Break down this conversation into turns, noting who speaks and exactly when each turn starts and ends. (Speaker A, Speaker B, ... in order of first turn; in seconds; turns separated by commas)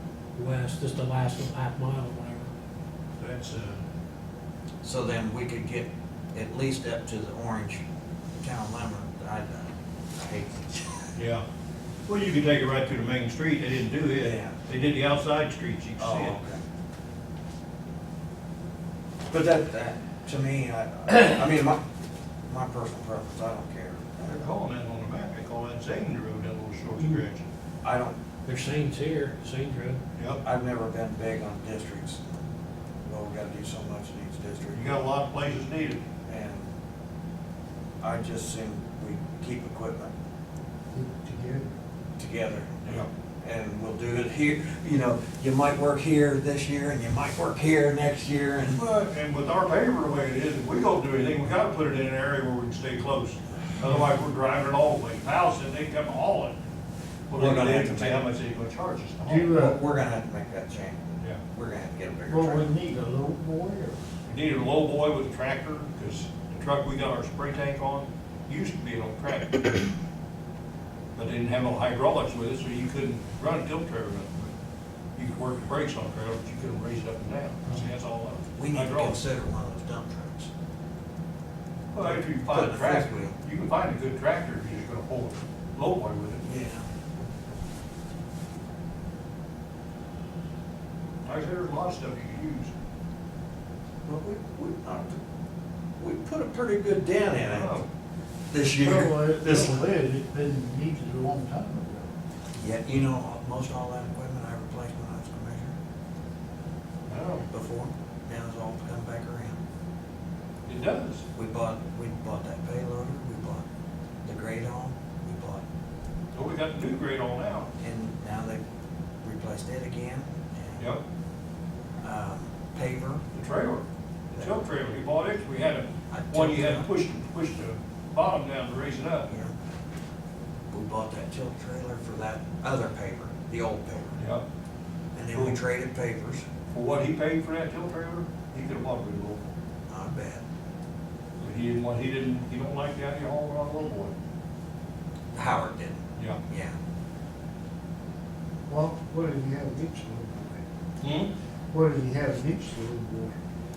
Speaker A: 0.3-2.5, Speaker B: 3.2-3.8, Speaker C: 4.8-7.8, Speaker C: 8.4-11.1, Speaker B: 11.2-11.4, Speaker B: 12.1-16.4, Speaker C: 14.2-14.6, Speaker C: 16.0-16.6, Speaker C: 19.3-21.8, Speaker C: 22.5-24.4, Speaker B: 24.2-27.4, Speaker C: 27.8-28.2, Speaker A: 28.4-30.0, Speaker C: 30.4-32.4, Speaker C: 33.0-34.9, Speaker B: 34.7-36.0, Speaker C: 36.3-36.7, Speaker C: 38.0-40.1, Speaker D: 40.9-41.7, Speaker C: 42.2-48.8, Speaker B: 48.7-56.5, Speaker B: 57.3-59.5, Speaker C: 57.4-58.2, Speaker D: 59.2-59.8, Speaker C: 59.5-62.7, Speaker D: 62.3-64.0, Speaker B: 64.2-69.9, Speaker B: 71.1-74.5, Speaker B: 75.1-79.2, Speaker C: 78.5-80.5, Speaker B: 81.9-86.5, Speaker C: 82.0-83.3, Speaker C: 86.4-86.8, Speaker B: 91.2-92.7, Speaker C: 94.0-95.2, Speaker C: 96.0-97.8, Speaker B: 97.5-97.8, Speaker C: 98.5-99.8, Speaker D: 98.7-102.1, Speaker C: 102.6-105.7, Speaker B: 107.1-107.4, Speaker C: 107.5-109.6, Speaker B: 110.7-111.2, Speaker C: 111.3-113.6, Speaker C: 114.2-115.6, Speaker B: 116.3-117.7, Speaker C: 117.8-118.6, Speaker C: 119.2-120.9, Speaker C: 122.0-123.2, Speaker B: 123.3-129.3, Speaker C: 126.1-126.9, Speaker C: 129.3-129.5, Speaker C: 130.7-134.2, Speaker B: 134.2-134.4, Speaker C: 135.1-136.4, Speaker B: 136.7-139.5, Speaker C: 139.9-140.4, Speaker B: 141.4-144.1, Speaker C: 145.3-146.7, Speaker D: 148.7-150.6, Speaker B: 151.0-151.3, Speaker D: 151.7-153.3